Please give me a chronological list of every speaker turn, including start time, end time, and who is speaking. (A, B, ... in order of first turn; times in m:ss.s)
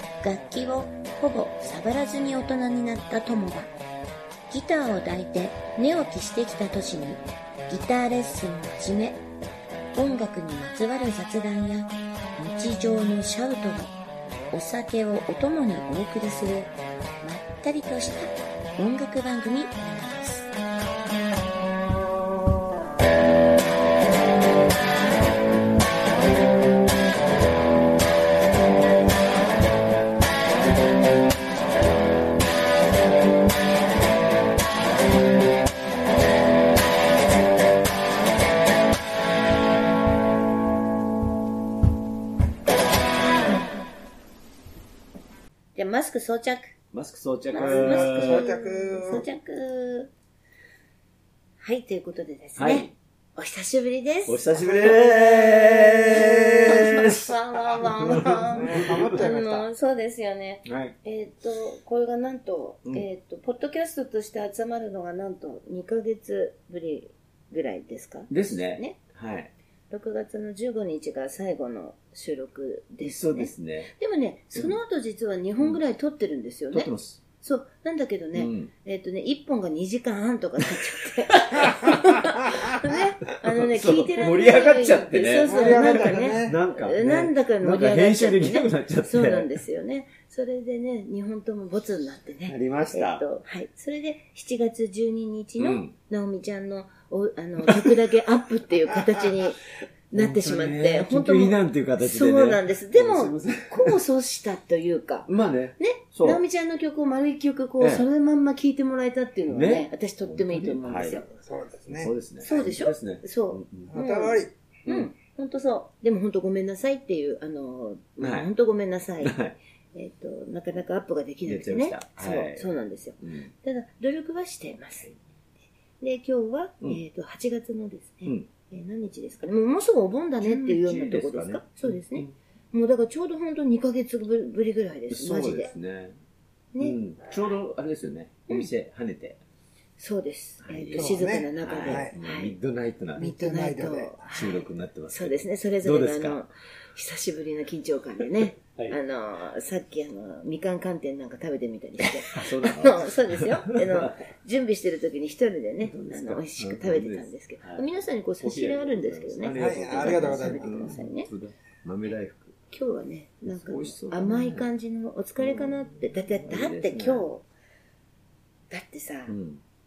0:00.2-0:03.7 A
0:04.5-0:09.2 A
0:09.9-0:13.9 A
0:14.5-0:20.5 A
0:45.8-0:46.7 A
0:46.9-0:48.5 B
0:47.5-0:50.1 A
0:47.5-0:49.2 C
0:51.6-1:09.0 A
0:52.6-0:52.9 B
0:54.3-0:59.3 B
0:58.5-0:59.7 C
1:00.6-1:01.0 B
1:08.3-1:09.5 B
1:09.9-1:51.3 A
1:13.0-1:13.9 B
1:16.7-1:17.2 B
1:18.4-1:18.7 B
1:21.4-1:22.6 B
1:23.4-1:29.5 B
1:25.5-1:26.6 C
1:32.5-1:33.3 B
1:35.6-1:35.9 B
1:37.6-1:38.0 B
1:40.1-1:44.0 B
1:45.3-1:46.4 B
1:47.8-1:48.0 B
1:49.5-1:51.3 B
1:51.3-1:52.1 C
1:51.9-1:53.9 B
1:52.4-1:59.4 A
1:53.9-1:54.5 C
1:54.9-1:55.1 B
1:58.2-1:58.5 B
1:59.2-1:59.6 B
1:59.9-2:05.1 A
2:01.5-2:03.5 B
2:06.0-2:15.7 A
2:10.4-2:12.3 B
2:15.1-2:16.2 B
2:16.7-2:17.0 A
2:16.8-2:19.4 B
2:20.0-2:22.6 A
2:20.6-2:23.3 B
2:20.9-2:22.1 C
2:23.2-2:41.3 A
2:23.2-2:24.2 C
2:24.3-2:26.5 B
2:28.2-2:29.0 B
2:32.0-2:34.2 B
2:35.8-2:37.9 B
2:38.4-2:42.7 B
2:39.5-2:41.0 C
2:42.7-2:47.4 A
2:43.5-2:44.7 B
2:45.4-2:47.3 B
2:48.7-2:49.4 A
2:49.3-2:49.6 B